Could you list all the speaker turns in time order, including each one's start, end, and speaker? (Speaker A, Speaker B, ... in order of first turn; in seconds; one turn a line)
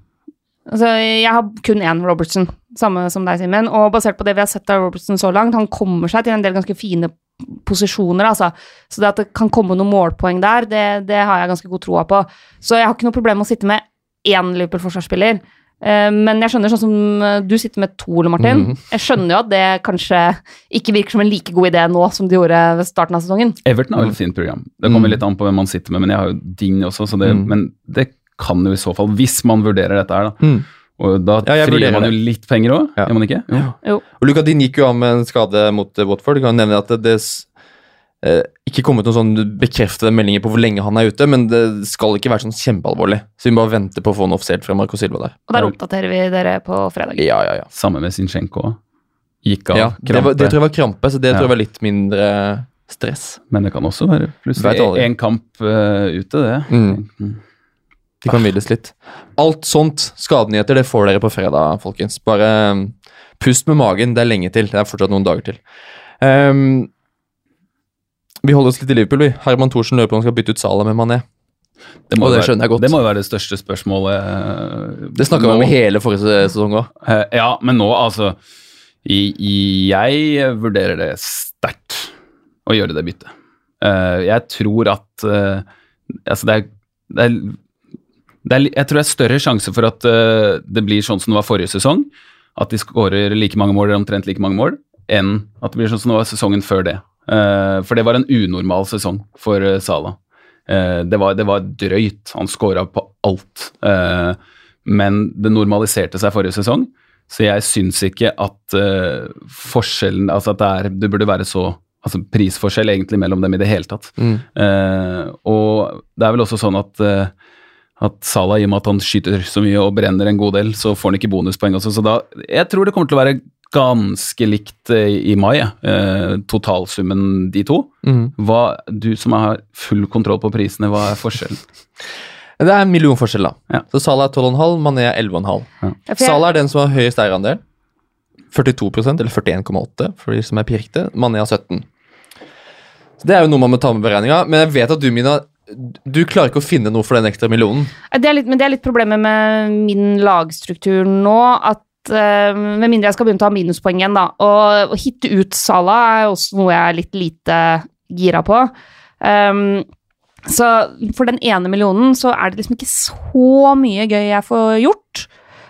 Speaker A: 0.7-23.6
Speaker B: 18.4-18.8
Speaker C: 23.6-30.5
Speaker B: 24.9-25.2
Speaker B: 27.2-27.5
Speaker C: 31.0-33.7
Speaker B: 31.4-32.1
Speaker B: 33.0-37.5
Speaker B: 38.2-45.5
Speaker A: 45.5-47.2
Speaker B: 47.2-47.7
Speaker C: 47.7-48.8
Speaker C: 49.4-50.6
Speaker B: 49.7-53.4
Speaker C: 53.5-57.4
Speaker B: 54.6-55.1
Speaker B: 56.7-57.0
Speaker B: 58.2-65.6
Speaker B: 66.2-66.9
Speaker B: 68.4-71.2
Speaker C: 72.1-75.8
Speaker B: 72.2-72.9
Speaker B: 75.2-76.9
Speaker C: 77.0-78.4
Speaker C: 79.0-82.1
Speaker C: 82.7-85.7
Speaker C: 86.2-87.6
Speaker C: 88.4-100.2
Speaker C: 100.7-117.3
Speaker B: 114.2-114.4
Speaker C: 118.0-131.6
Speaker B: 128.0-128.3
Speaker B: 132.6-137.6
Speaker A: 136.1-136.4
Speaker B: 138.5-141.8
Speaker B: 143.2-147.9
Speaker A: 148.1-159.9
Speaker A: 160.5-165.3